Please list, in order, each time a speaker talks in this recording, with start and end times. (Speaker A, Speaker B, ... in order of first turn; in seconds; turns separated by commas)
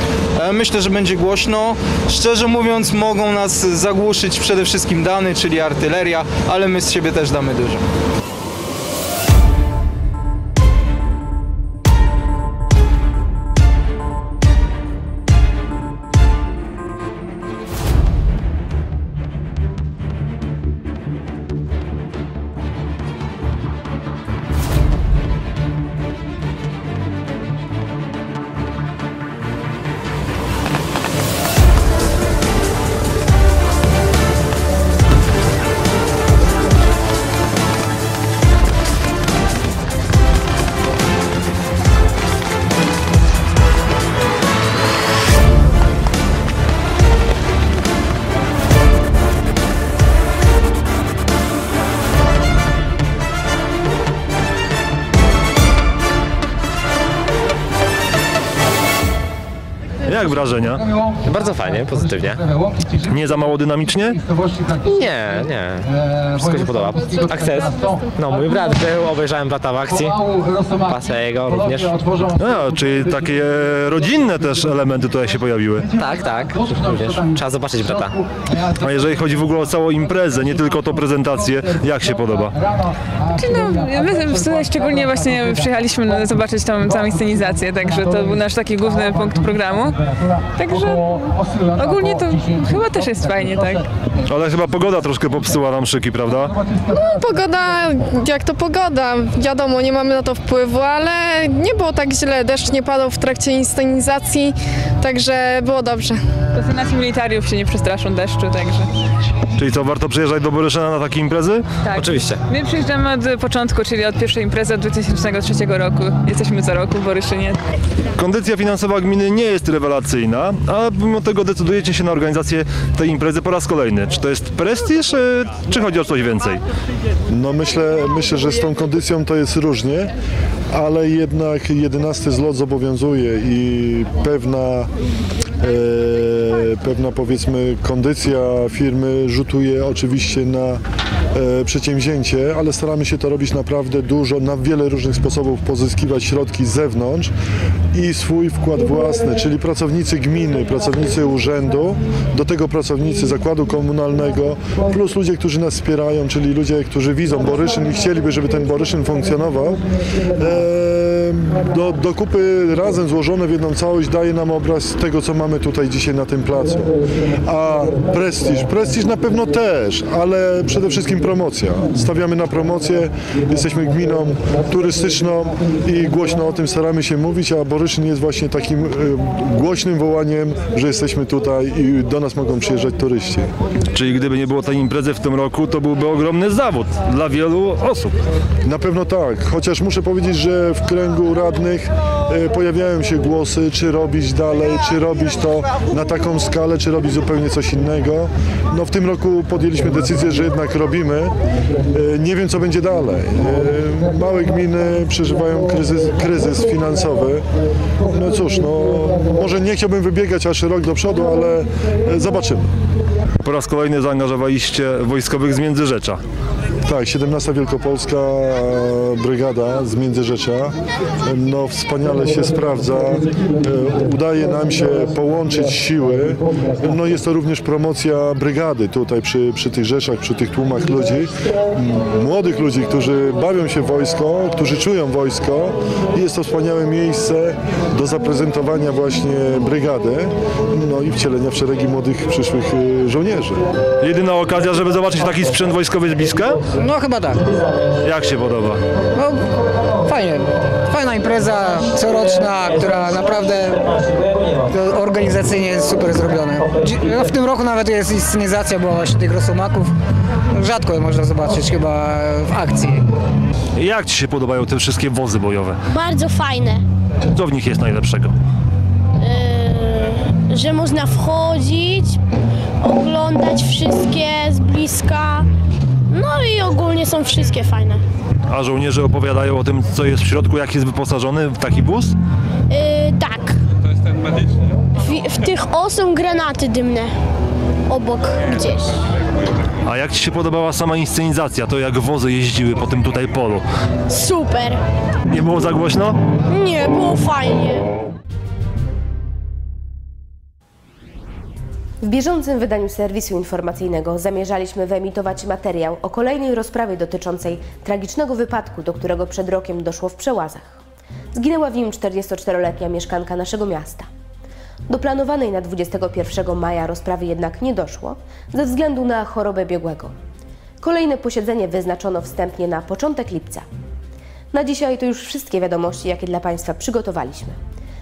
Speaker A: 0.4-7.8, Speaker B: 60.1-60.9, Speaker C: 61.2-62.4, Speaker B: 63.0-64.2, Speaker C: 64.8-72.0, Speaker B: 72.4-76.0, Speaker C: 76.0-78.2, Speaker B: 78.6-82.6, Speaker D: 83.3-93.9, Speaker B: 94.2-96.6, Speaker E: 96.9-106.2, Speaker D: 106.5-108.9, Speaker B: 109.6-111.7, Speaker D: 111.9-117.6, Speaker C: 112.0-112.4, Speaker B: 118.2-126.6, Speaker F: 127.3-130.1, Speaker F: 130.7-134.9, Speaker F: 135.6-140.8, Speaker F: 141.3-147.3, Speaker F: 147.9-159.8, Speaker F: 160.3-166.9, Speaker F: 167.5-183.5, Speaker B: 183.9-188.1, Speaker F: 188.6-201.3, Speaker F: 201.9-207.4, Speaker F: 208.0-212.7, Speaker B: 213.4-216.2, Speaker F: 216.8-243.6, Speaker B: 244.0-246.6, Speaker G: 246.8-247.4, Speaker B: 248.0-248.8, Speaker G: 249.2-249.4, Speaker G: 250.0-259.9, Speaker G: 260.5-263.1, Speaker B: 263.8-265.8, Speaker H: 265.9-266.8, Speaker B: 267.3-268.3, Speaker H: 269.2-272.2, Speaker H: 272.8-275.5, Speaker H: 276.1-278.0, Speaker B: 278.5-282.2, Speaker H: 282.7-283.6, Speaker H: 285.0-287.1, Speaker H: 287.9-289.0, Speaker B: 289.9-293.6, Speaker H: 294.1-294.8, Speaker B: 295.3-296.2, Speaker H: 296.5-297.9, Speaker I: 302.0-310.8, Speaker I: 311.3-314.1, Speaker I: 314.9-320.1, Speaker I: 320.8-323.6, Speaker I: 324.5-327.6